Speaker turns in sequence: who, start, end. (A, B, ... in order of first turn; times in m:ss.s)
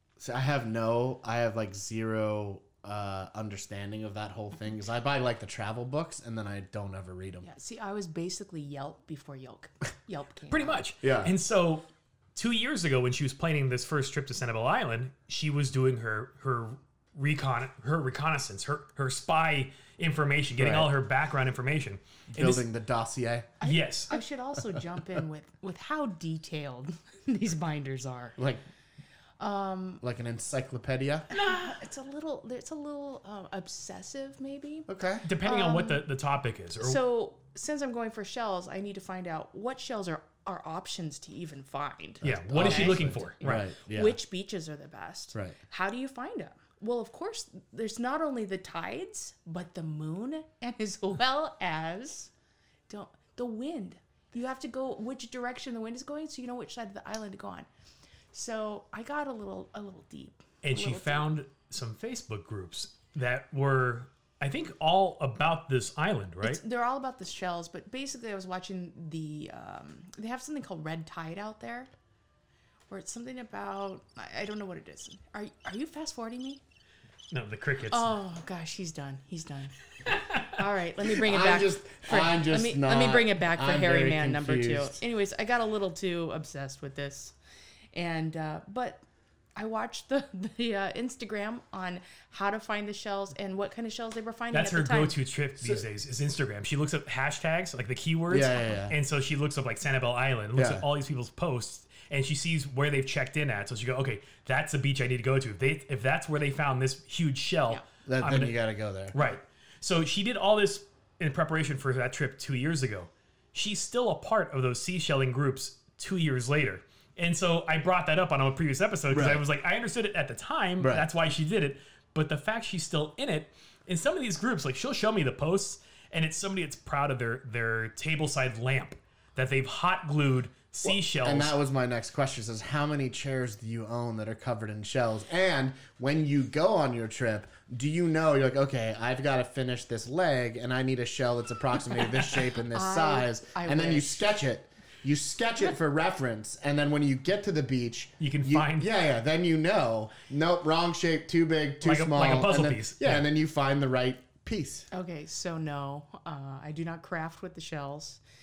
0:00.2-0:07.5 A
0:07.4-0:10.8 B
0:10.5-0:22.7 C
0:11.0-0:11.3 A
0:20.6-0:20.9 A
0:22.3-0:23.5 A
0:23.6-0:28.4 B
0:23.6-0:24.2 C
0:28.4-0:28.6 A
0:29.4-0:30.0 B
0:30.0-0:31.3 A
0:31.3-0:34.9 B
0:31.3-0:31.7 C
0:34.9-0:35.2 A
0:35.2-0:37.0 C
0:35.4-0:36.0 B
0:36.8-0:52.3 B
0:42.2-0:43.6 C
0:42.2-0:44.2 A
0:52.9-0:57.7 B
0:58.3-1:01.3 B
1:00.6-1:06.6 C
1:06.4-1:11.9 B
1:12.9-1:16.6 B
1:17.3-1:18.1 C
1:17.9-1:19.7 B
1:20.1-1:20.5 C
1:20.3-1:27.3 B
1:21.1-1:25.0 A
1:27.9-1:29.0 B
1:29.6-1:35.2 B
1:34.5-1:48.6 C
1:38.3-1:39.0 A
1:40.5-1:40.8 A
1:48.0-1:49.2 A
1:49.1-2:11.5 C
1:59.1-1:59.4 A
2:00.8-2:01.0 A
2:10.8-2:34.9 A
2:22.7-2:24.4 B
2:28.2-2:28.9 C
2:31.8-2:33.2 C
2:34.9-2:38.2 B